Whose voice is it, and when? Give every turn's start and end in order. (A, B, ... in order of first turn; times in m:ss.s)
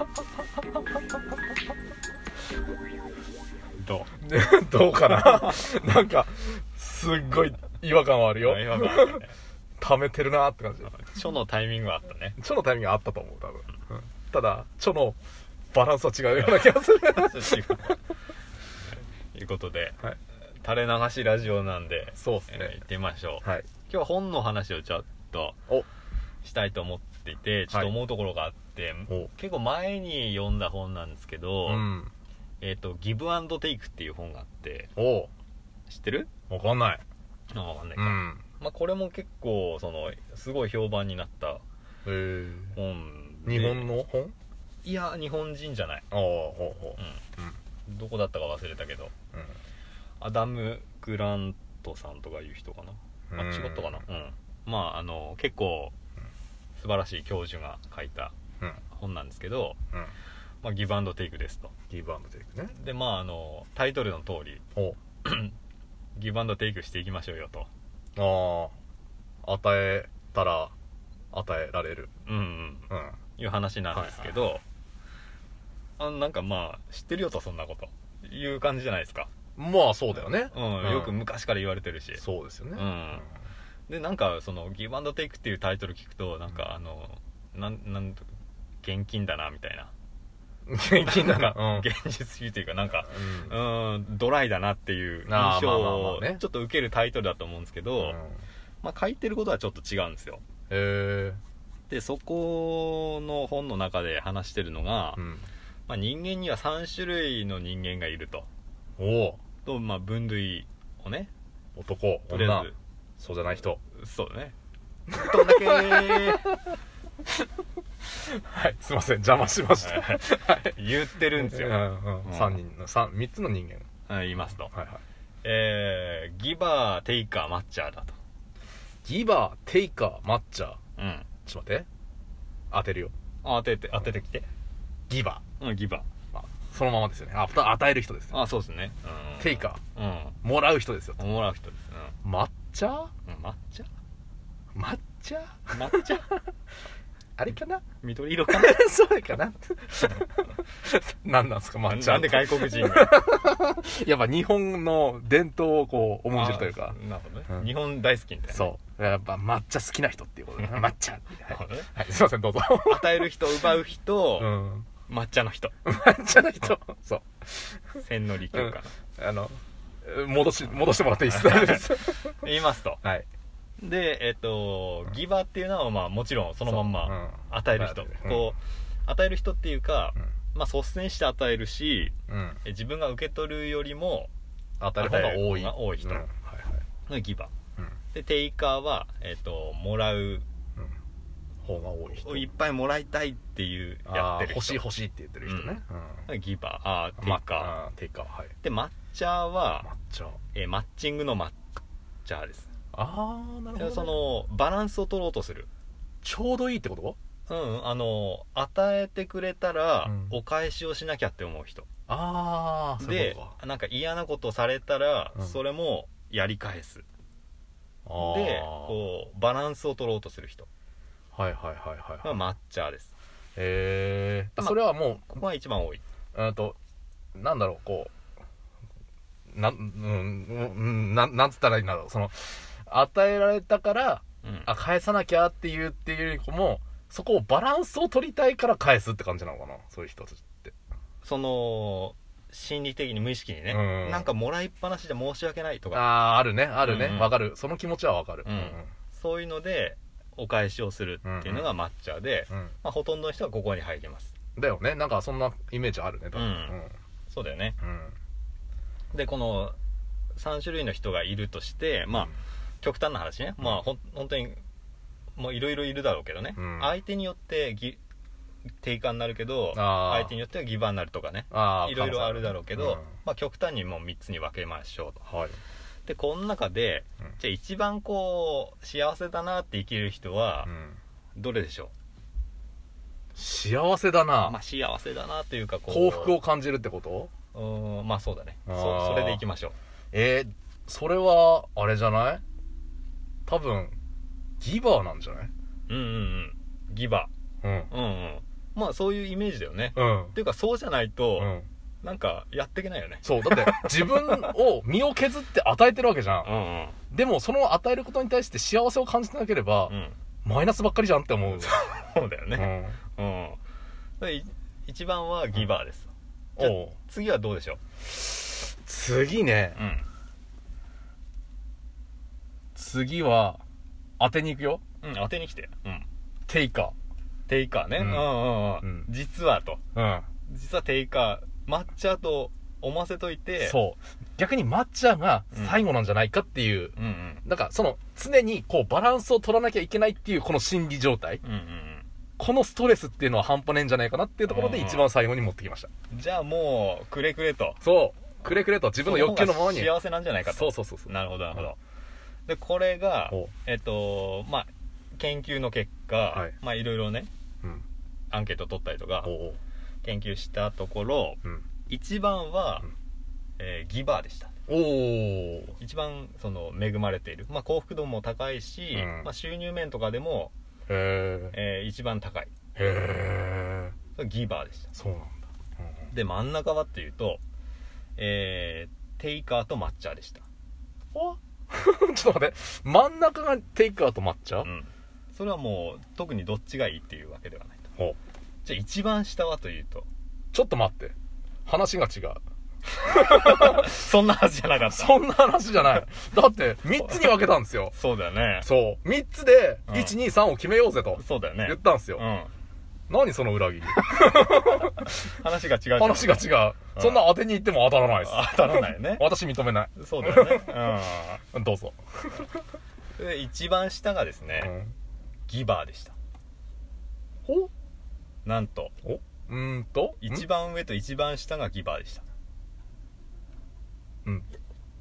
0:03.8-0:04.1 A
0:04.2-0:09.2 B
0:08.4-0:09.3 A
0:09.8-0:11.0 B
0:10.9-0:12.4 A
0:12.4-0:15.2 B
0:15.7-0:18.0 B
0:17.0-0:18.0 A
0:18.9-0:20.0 A
0:20.6-0:25.6 A
0:22.2-0:22.8 B
0:26.4-0:31.9 A
0:31.7-0:32.1 B
0:32.6-0:34.9 A
0:35.0-0:35.3 B
0:35.9-0:36.3 A
0:36.5-0:37.0 B
0:37.5-0:41.6 A
0:38.0-0:38.4 B
0:42.0-0:42.8 B
0:42.8-0:43.9 A
0:43.4-0:44.3 B
0:44.8-0:46.0 A
0:46.1-0:47.6 B
0:47.9-0:49.1 A
0:50.2-0:55.9 A
0:53.3-0:54.0 B
0:56.8-0:58.3 A
0:58.9-0:59.8 A
1:00.6-1:01.7 A
1:01.9-1:02.8 B
1:02.7-1:04.6 A
1:05.2-1:05.6 A
1:06.2-1:07.7 A
1:08.2-1:08.8 B
1:09.4-1:10.7 B
1:11.3-1:12.1 B
1:12.2-1:14.6 A
1:12.9-1:13.2 B
1:13.9-1:14.4 B
1:16.0-1:19.3 A
1:19.6-1:21.2 B
1:20.5-1:22.2 A
1:22.2-1:23.3 B
1:22.8-1:23.2 A
1:23.9-1:28.3 A
1:28.8-1:29.9 A
1:30.7-1:31.9 B
1:30.9-1:38.2 A
1:33.1-1:33.6 B
1:35.3-1:36.4 B
1:38.0-1:38.4 B
1:38.8-1:40.4 A
1:40.7-1:41.4 B
1:41.9-1:45.2 A
1:45.2-1:45.5 B
1:45.9-1:48.5 A
1:49.0-1:49.4 B
1:49.6-1:51.3 A
1:51.8-1:53.8 B
1:52.3-1:52.8 A
1:53.9-1:54.6 A
1:55.1-1:56.8 B
1:55.1-1:56.5 A
1:58.1-2:00.8 B
1:59.8-2:02.6 A
2:01.3-2:03.9 B
2:04.1-2:04.7 A
2:04.7-2:05.0 B
2:05.4-2:08.2 A
2:09.0-2:10.8 B
2:11.0-2:11.3 A
2:11.5-2:11.9 B
2:12.7-2:13.1 B
2:13.4-2:14.5 A
2:15.1-2:15.4 B
2:15.6-2:16.1 A
2:16.3-2:18.4 B
2:18.3-2:20.4 A
2:19.4-2:19.8 B
2:20.4-2:21.2 B
2:21.2-2:22.2 A
2:22.2-2:23.1 B
2:23.2-2:23.9 A
2:24.8-2:26.4 B
2:25.7-2:26.2 A
2:27.4-2:27.8 B
2:28.0-2:28.8 A
2:28.5-2:37.0 B
2:31.8-2:33.1 A
2:36.3-2:38.7 A
2:38.5-2:43.5 B
2:41.5-2:41.9 A
2:42.8-2:44.5 A
2:44.4-2:44.9 B
2:45.1-2:45.7 A
2:45.8-2:52.5 B
2:48.0-2:48.9 A
2:51.3-2:53.0 A
2:53.8-3:02.1 A
2:56.7-2:58.5 B
3:02.3-3:02.6 B
3:02.6-3:04.3 A
3:04.8-3:06.8 B
3:05.0-3:06.2 A
3:07.1-3:07.5 A
3:08.1-3:10.4 A
3:11.6-3:12.5 B
3:12.2-3:14.8 A
3:14.1-3:16.3 B
3:15.5-3:17.8 A
3:17.2-3:18.5 B
3:18.6-3:19.9 A
3:19.8-3:20.4 B
3:20.5-3:21.6 A
3:22.2-3:22.7 A
3:22.9-3:24.2 B
3:23.8-3:25.7 A
3:26.2-3:27.2 B
3:27.5-3:31.9 A
3:30.0-3:30.3 B
3:32.1-3:33.5 B
3:33.0-3:37.1 A
3:38.1-3:39.0 B
3:38.2-3:40.7 A
3:41.3-3:42.4 B
3:42.2-3:43.1 A
3:43.6-3:45.3 B
3:44.6-3:46.0 A
3:46.3-3:46.8 B
3:47.3-3:48.1 B
3:49.5-4:00.7 B
3:54.4-3:54.7 A
4:01.2-4:06.1 A
4:03.7-4:04.3 B
4:05.9-4:08.9 B
4:06.8-4:07.4 A
4:08.4-4:14.3 A
4:11.2-4:11.7 B
4:14.6-4:16.9 B
4:16.3-4:16.8 A
4:17.3-4:17.8 A
4:17.8-4:18.1 B
4:19.1-4:19.8 A
4:20.3-4:24.6 A
4:25.4-4:28.0 A
4:26.6-4:26.9 B
4:28.8-4:35.2 A
4:29.7-4:30.3 B
4:31.5-4:33.1 B
4:35.2-4:35.6 B
4:36.0-4:40.7 A
4:40.7-4:41.0 B
4:41.4-4:41.9 A
4:43.3-4:44.6 B
4:44.4-4:46.4 A
4:45.9-4:47.3 B
4:47.5-4:49.7 A
4:48.7-4:49.4 B
4:50.1-4:52.4 B
4:53.5-4:54.0 B
4:54.6-4:55.5 B
4:55.9-4:57.3 A
4:57.6-4:57.9 B
4:57.9-5:04.5 A
5:00.0-5:00.3 B
5:01.4-5:01.7 B
5:03.2-5:06.5 B
5:06.4-5:07.0 A
5:07.1-5:11.7 B
5:09.9-5:10.2 A
5:11.6-5:13.6 A
5:12.5-5:13.0 B
5:14.2-5:17.8 A
5:16.6-5:16.9 B
5:18.1-5:19.8 B
5:19.8-5:20.0 A
5:22.7-5:23.6 B
5:24.2-5:24.8 B
5:25.0-5:26.0 A
5:26.5-5:26.9 B
5:27.5-5:29.8 A
5:28.0-5:29.1 B
5:29.9-5:30.3 B
5:30.4-5:33.8 A
5:33.6-5:41.4 B
5:35.5-5:35.8 A
5:37.0-5:37.4 A
5:41.4-5:42.0 A
5:42.4-5:45.9 B
5:44.5-5:45.0 A
5:46.1-5:47.8 A
5:47.8-5:49.9 B
5:49.0-5:51.8 A
5:50.5-5:51.6 B
5:52.5-5:57.3 A
5:58.3-5:59.3 A
5:59.2-5:59.6 B
6:00.0-6:02.9 A
6:03.6-6:04.5 A
6:04.7-6:05.8 B
6:05.8-6:10.5 A
6:08.9-6:09.3 B
6:10.9-6:11.5 B
6:11.5-6:12.5 A
6:12.8-6:13.9 B
6:14.2-6:14.9 A
6:14.9-6:16.1 B
6:16.1-6:17.4 A
6:18.2-6:20.4 A
6:21.1-6:24.7 B
6:24.6-6:27.8 A
6:28.6-6:30.1 A
6:30.5-6:31.1 B
6:31.6-6:32.4 B
6:33.0-6:35.1 A
6:33.1-6:33.9 B
6:34.8-6:38.0 B
6:37.9-6:38.7 A
6:38.6-6:42.2 B
6:39.9-6:40.2 A
6:41.2-6:42.5 A
6:43.1-6:45.4 B
6:44.4-6:47.3 A
6:46.0-6:51.0 B
6:48.2-6:49.3 A
6:50.0-6:51.4 A
6:51.5-6:52.6 B
6:53.2-6:54.7 A
6:54.6-6:54.9 B
6:55.5-6:56.1 A
6:57.4-6:57.7 B
6:58.4-6:58.9 A
6:59.0-7:00.4 B
7:00.2-7:02.2 A